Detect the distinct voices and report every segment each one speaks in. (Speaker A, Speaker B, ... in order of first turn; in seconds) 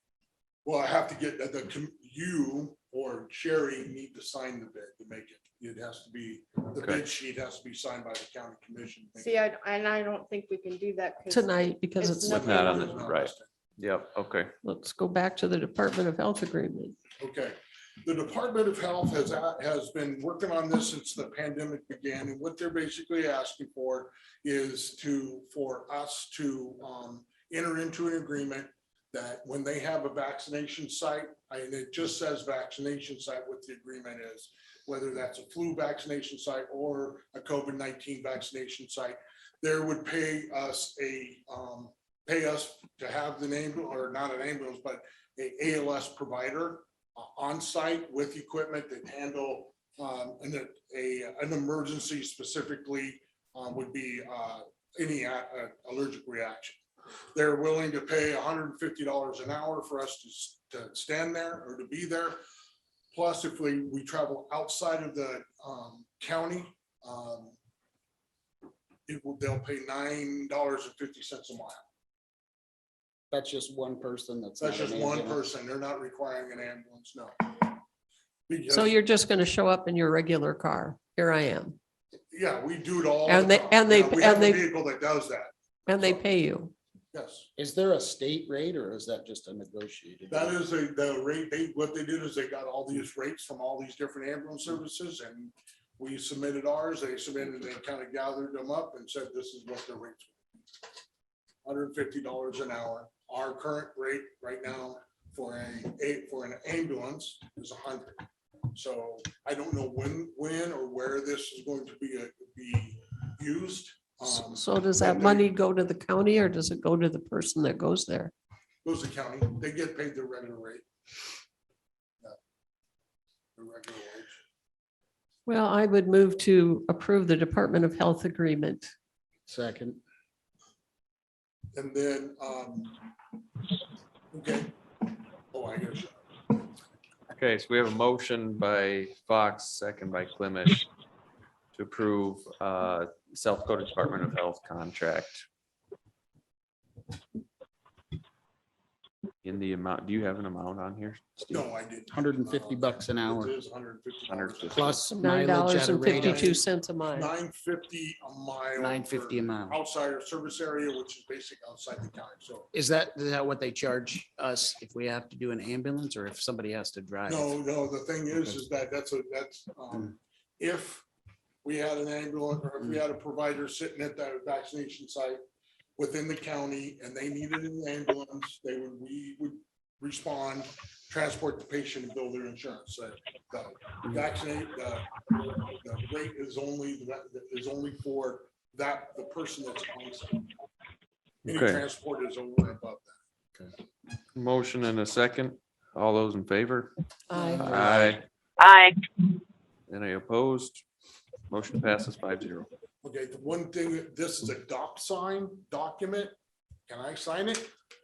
Speaker A: 0.6-9.3, 12.3-13.5, 17.2-56.8, 57.3-62.4, 63.1-67.5, 69.1-71.8, 74.6-77.8, 78.5-79.0, 82.3-86.2, 87.1-87.5, 90.3-100.3, 101.6-115.5, 118.8-120.8, 123.5-124.4, 131.7-133.1, 134.3-134.8, 135.5-136.2, 151.5-155.0, 155.9-162.7, 167.3-171.0, 171.6-175.4, 176.0-190.5, 191.5-193.2, 203.0-206.3, 206.9-207.7
Speaker B: 6.7-7.0, 12.3-14.5, 137.3-140.8, 141.7-145.4, 149.4-151.4, 154.3-155.0, 191.4-191.8, 194.3-196.9, 197.6-198.2, 199.9-200.8, 201.5-202.7
Speaker C: 9.2-13.1
Speaker D: 11.3-12.5, 14.6-16.9, 78.7-81.8, 83.2-84.7, 85.9-86.7, 114.3-118.3, 125.5-128.9, 155.1-157.3, 197.3-197.8
Speaker E: 73.3-75.4, 87.5-90.5, 129.5-130.0, 152.1-153.5, 154.7-156.6, 158.8-159.8, 162.7-167.6, 197.3-198.2